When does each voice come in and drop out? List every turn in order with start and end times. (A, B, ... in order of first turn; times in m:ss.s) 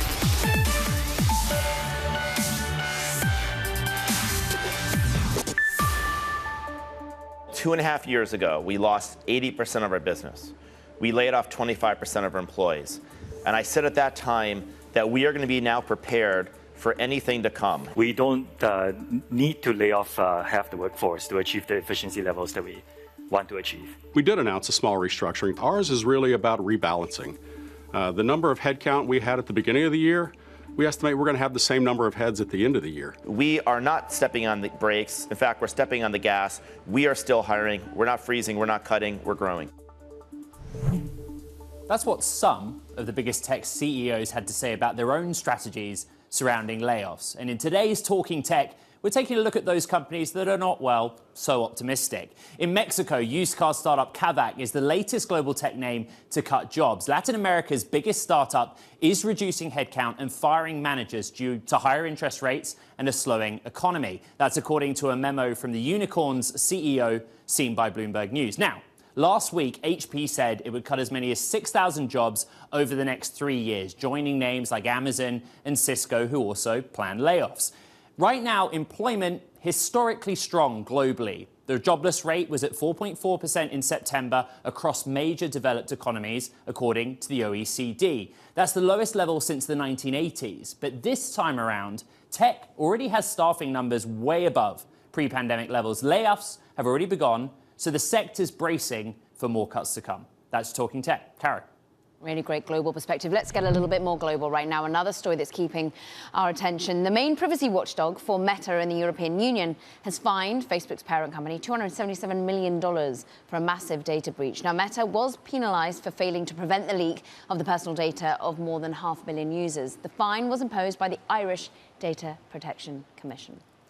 0:07.5-0:17.9 A
0:17.9-0:24.0 B
0:24.1-0:27.4 C
0:27.9-0:33.2 C
0:33.2-0:39.7 A
0:41.9-1:41.7 D
1:42.2-2:03.6 E